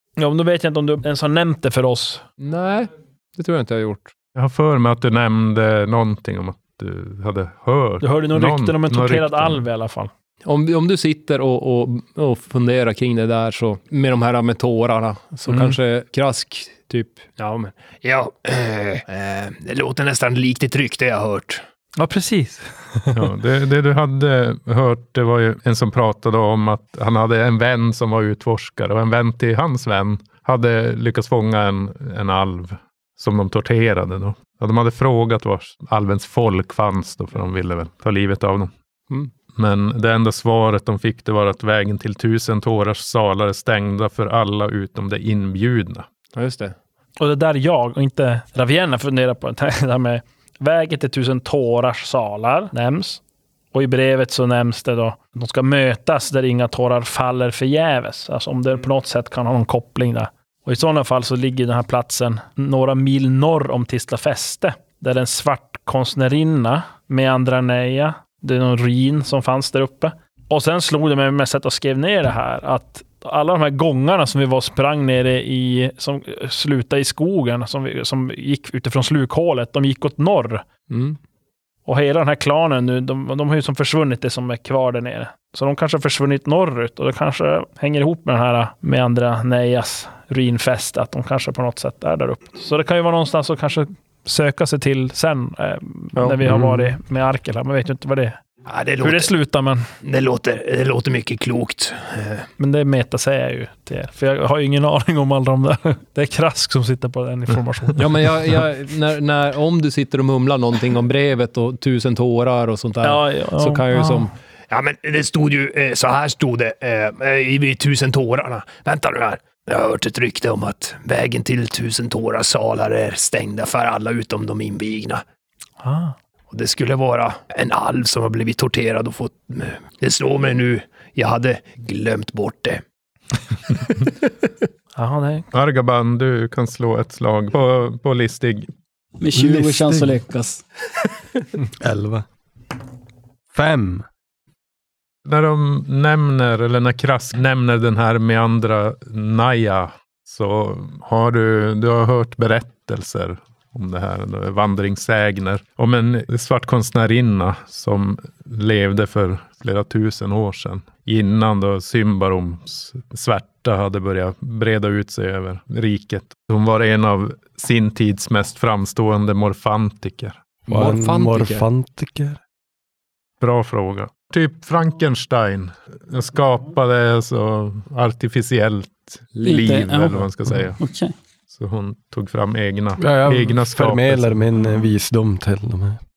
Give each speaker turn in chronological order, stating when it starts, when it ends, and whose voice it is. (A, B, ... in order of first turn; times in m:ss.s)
0:00.2-0:02.2 A
0:02.4-0:04.1 B
0:04.4-0:09.6 C
0:08.0-0:10.1 A
0:10.4-0:17.8 B
0:18.0-0:21.6 D
0:22.0-0:23.2 A
0:23.1-0:38.7 C
0:39.6-0:46.1 C
0:46.4-0:46.8 B
0:47.2-0:53.2 A
0:53.7-1:20.6 A
1:20.9-1:21.2 B
1:21.9-1:38.4 A
1:38.7-1:39.3 D
1:39.0-1:39.8 A
1:40.0-1:42.5 D
1:42.6-1:48.0 A
1:48.0-1:54.3 B
1:53.0-1:54.3 A
1:54.7-2:05.2 D
2:05.8-2:06.2 A
2:06.5-2:12.8 D
2:15.0-2:15.5 A
2:15.5-2:18.7 C
2:19.2-2:20.6 E
2:19.4-2:20.2 F
2:21.8-2:22.2 F
2:23.5-2:24.0 F
2:25.3-2:50.4 C
2:50.7-2:52.4 F
2:50.7-2:51.6 B
2:53.4-3:00.8 C
2:59.4-2:59.6 B
2:59.4-3:00.2 E
3:00.8-3:01.1 E
3:01.5-3:04.4 C
3:03.0-3:06.0 F